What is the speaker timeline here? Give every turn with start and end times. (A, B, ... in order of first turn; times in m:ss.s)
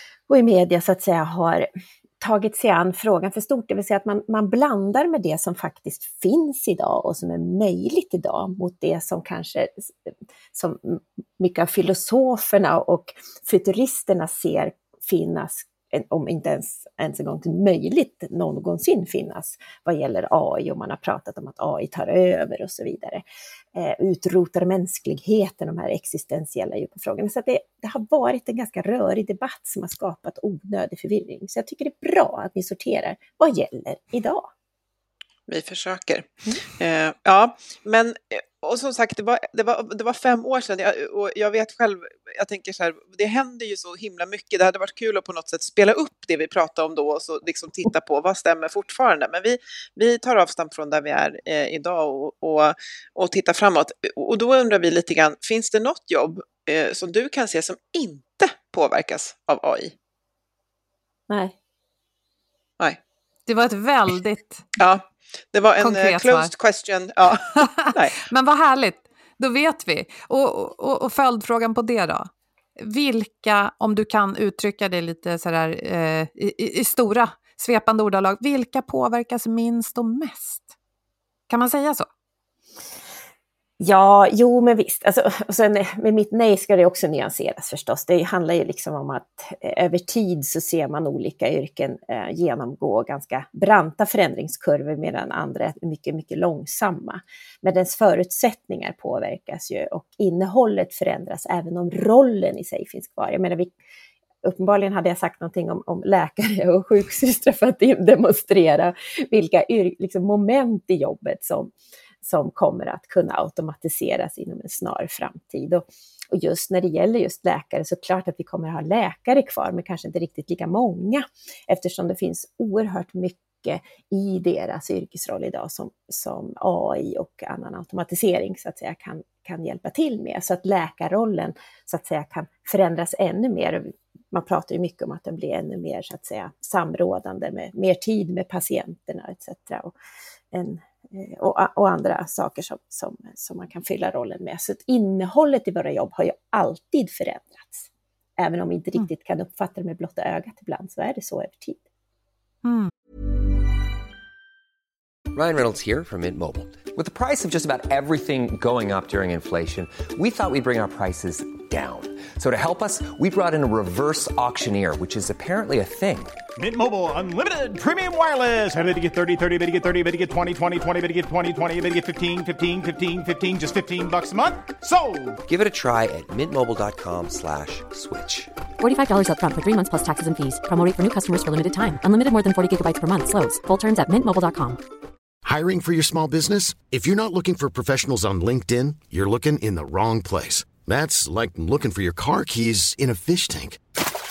0:00.3-0:01.7 A
0:02.2-0:09.9 A
0:10.5-0:23.2 A
0:23.8-0:34.5 A
0:35.5-0:59.9 B
1:01.3-1:01.6 A
1:03.5-1:04.6 C
1:04.8-1:08.2 B
1:05.8-1:06.5 C
1:07.6-1:20.7 C
1:21.5-1:22.1 C
1:23.8-1:43.7 A
1:44.4-2:19.9 A
2:20.5-2:31.8 A
2:32.6-2:32.9 C
2:35.3-2:46.3 D
2:46.6-2:55.4 E
2:55.5-2:58.5 D
2:58.8-3:04.8 F
3:05.4-3:13.8 G